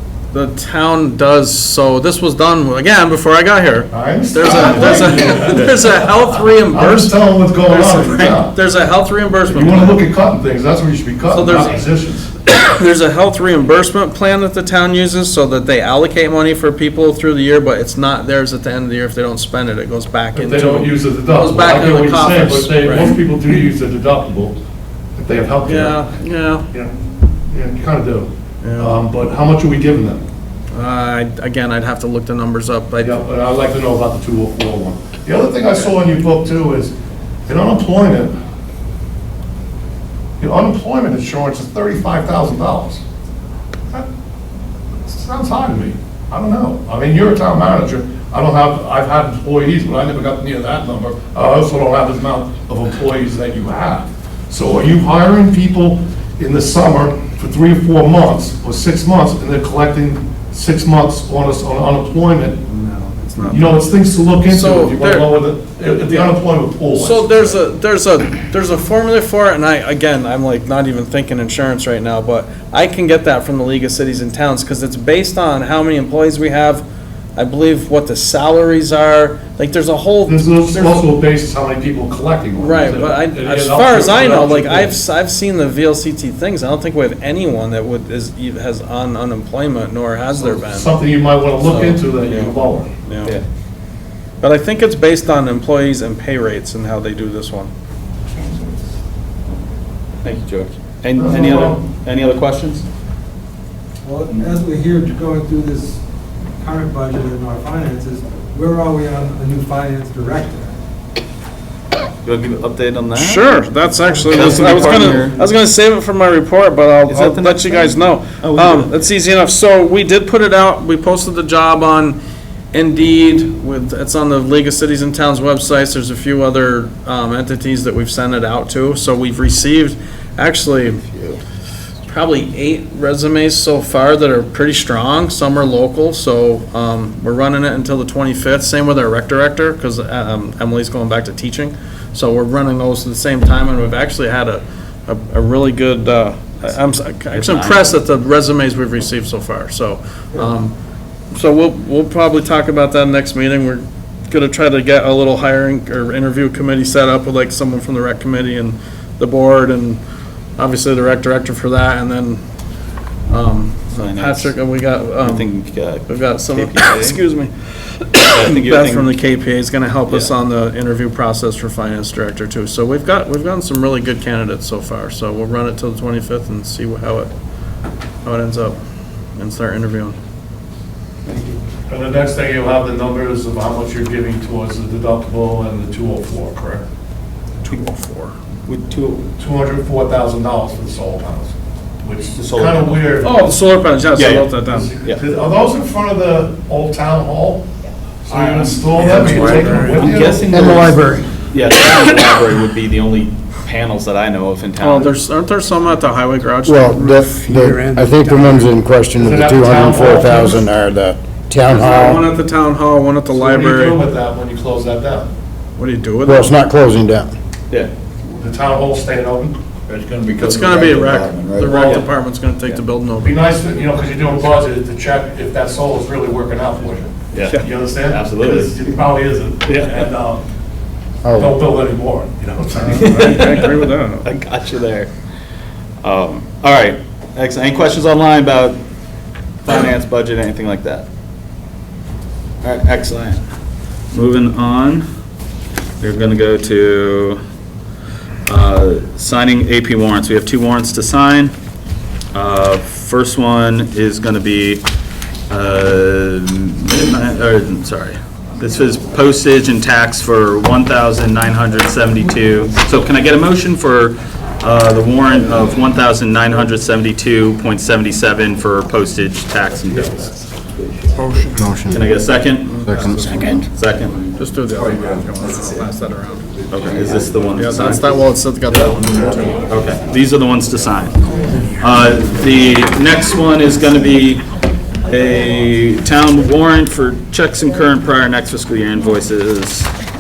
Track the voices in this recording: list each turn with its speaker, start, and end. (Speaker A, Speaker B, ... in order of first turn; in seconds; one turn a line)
Speaker A: 0.3-10.0
Speaker B: 3.9-8.5
Speaker B: 9.5-12.3
Speaker A: 11.3-11.8
Speaker A: 12.5-23.2
Speaker B: 20.3-24.6
Speaker B: 25.2-26.0
Speaker A: 25.6-26.7
Speaker B: 27.5-30.2
Speaker A: 28.6-29.0
Speaker A: 30.7-33.2
Speaker B: 33.0-37.0
Speaker B: 37.5-38.3
Speaker B: 40.4-43.0
Speaker B: 45.1-62.6
Speaker A: 62.7-63.8
Speaker B: 63.5-67.5
Speaker A: 64.5-65.4
Speaker A: 66.1-66.4
Speaker A: 66.9-76.8
Speaker A: 77.4-81.1
Speaker B: 80.3-84.9
Speaker A: 82.6-90.9
Speaker B: 90.4-92.9
Speaker A: 91.6-93.4
Speaker A: 94.4-97.7
Speaker C: 100.2-102.8
Speaker B: 101.2-101.8
Speaker D: 104.0-106.0
Speaker D: 106.6-110.8
Speaker C: 112.2-113.5
Speaker A: 113.1-122.2
Speaker C: 114.2-115.4
Speaker D: 114.3-115.2
Speaker C: 117.1-118.9
Speaker A: 122.7-131.2
Speaker A: 132.1-150.7
Speaker C: 147.3-148.0
Speaker A: 151.3-160.0
Speaker A: 160.6-162.4
Speaker A: 163.3-165.5
Speaker C: 163.9-164.5
Speaker C: 165.2-167.2
Speaker A: 166.1-177.3
Speaker C: 168.3-169.1
Speaker A: 178.2-178.8
Speaker A: 179.3-180.2
Speaker C: 181.3-181.6
Speaker B: 181.9-186.8
Speaker A: 187.6-188.3
Speaker C: 188.7-189.3
Speaker B: 189.3-193.5
Speaker C: 192.4-193.3
Speaker A: 193.2-194.9
Speaker C: 194.2-194.5
Speaker B: 194.6-197.7
Speaker B: 198.2-200.8
Speaker A: 198.3-200.1
Speaker C: 198.9-205.1
Speaker E: 200.5-201.3
Speaker A: 204.8-207.3
Speaker E: 206.7-212.3
Speaker D: 207.2-208.7
Speaker B: 209.2-210.7
Speaker A: 211.7-214.0
Speaker B: 213.3-215.3
Speaker A: 215.8-216.5
Speaker E: 216.2-217.3
Speaker B: 218.3-219.6
Speaker C: 219.9-222.1
Speaker A: 220.4-223.4
Speaker B: 221.6-222.0
Speaker B: 223.2-230.4
Speaker C: 227.3-228.7
Speaker C: 229.7-230.1
Speaker E: 231.2-231.6
Speaker B: 231.4-233.6
Speaker A: 232.8-234.3
Speaker C: 233.0-235.1
Speaker C: 236.0-238.8
Speaker C: 239.6-241.1
Speaker C: 242.6-243.4
Speaker C: 244.1-245.1
Speaker C: 246.0-247.4
Speaker C: 248.5-251.5
Speaker C: 252.3-254.9
Speaker C: 255.5-270.3
Speaker A: 271.1-271.7
Speaker E: 271.6-272.1
Speaker C: 271.9-274.2
Speaker A: 272.6-273.6
Speaker E: 272.9-273.6
Speaker A: 274.4-276.5
Speaker C: 276.7-278.1
Speaker A: 277.6-279.7
Speaker C: 279.6-281.3
Speaker C: 281.8-284.5
Speaker C: 285.1-289.9